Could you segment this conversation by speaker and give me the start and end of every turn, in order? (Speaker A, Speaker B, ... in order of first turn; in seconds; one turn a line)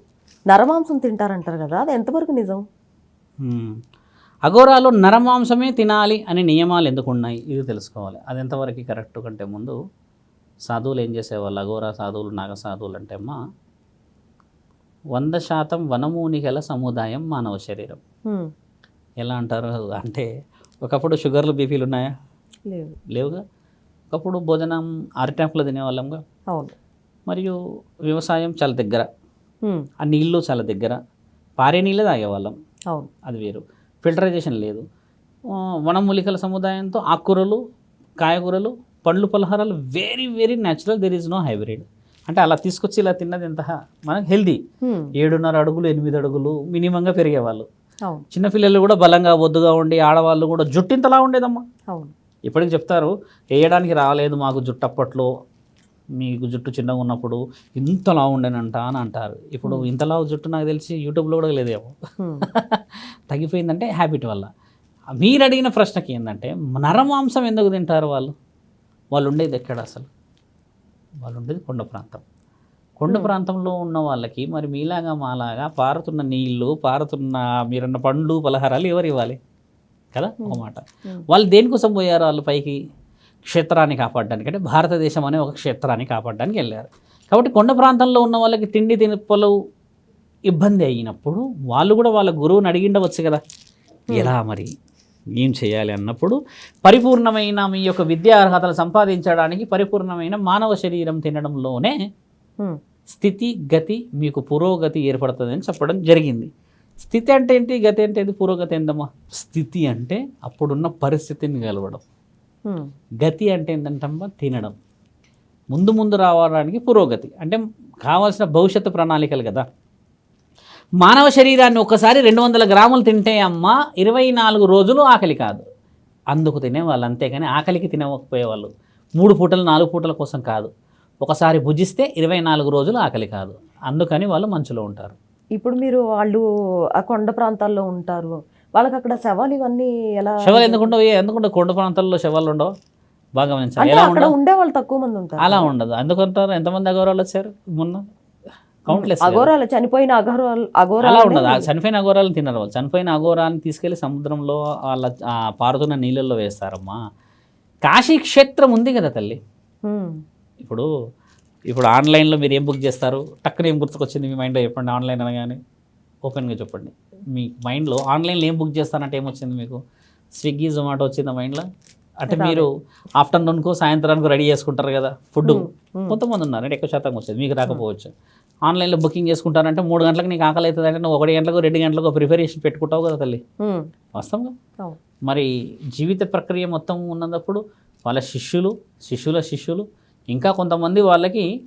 Speaker A: 0.5-2.6
Speaker B: 3.4-3.8
Speaker B: 4.5-9.7
Speaker B: 10.7-13.3
Speaker B: 15.1-18.0
Speaker B: 19.2-20.3
Speaker B: 20.8-22.1
Speaker A: 22.7-22.9
Speaker B: 23.1-23.4
Speaker B: 24.1-26.2
Speaker B: 27.3-27.5
Speaker B: 28.1-29.1
Speaker B: 30.0-31.0
Speaker B: 31.6-32.5
Speaker B: 33.2-34.8
Speaker B: 35.5-37.6
Speaker B: 38.2-44.6
Speaker A: 44.8-45.1
Speaker B: 45.2-47.6
Speaker B: 48.3-51.6
Speaker B: 52.5-55.3
Speaker B: 56.2-61.9
Speaker A: 62.2-62.5
Speaker B: 62.5-64.5
Speaker B: 65.2-68.3
Speaker B: 69.1-70.1
Speaker B: 71.2-72.2
Speaker B: 73.0-79.4
Speaker B: 80.1-82.8
Speaker A: 80.4-81.2
Speaker B: 83.4-89.5
Speaker B: 90.5-93.4
Speaker B: 94.1-94.7
Speaker B: 95.4-102.0
Speaker B: 103.1-106.5
Speaker B: 107.0-112.0
Speaker B: 113.2-114.7
Speaker B: 115.7-119.7
Speaker B: 121.0-125.6
Speaker B: 126.3-130.7
Speaker B: 131.2-135.2
Speaker A: 135.6-136.4
Speaker A: 137.0-140.9
Speaker B: 140.4-142.7
Speaker B: 143.3-144.3
Speaker A: 143.8-145.7
Speaker B: 145.4-148.0
Speaker B: 148.9-149.5
Speaker A: 148.9-151.7
Speaker B: 151.0-157.0
Speaker B: 157.9-159.4
Speaker A: 159.9-160.1
Speaker B: 161.7-165.6
Speaker B: 166.2-169.8
Speaker B: 170.4-171.6
Speaker B: 172.2-172.7
Speaker A: 172.3-172.7
Speaker B: 173.2-178.1
Speaker A: 175.4-176.2
Speaker B: 178.7-183.4
Speaker B: 184.1-184.5
Speaker B: 185.3-191.5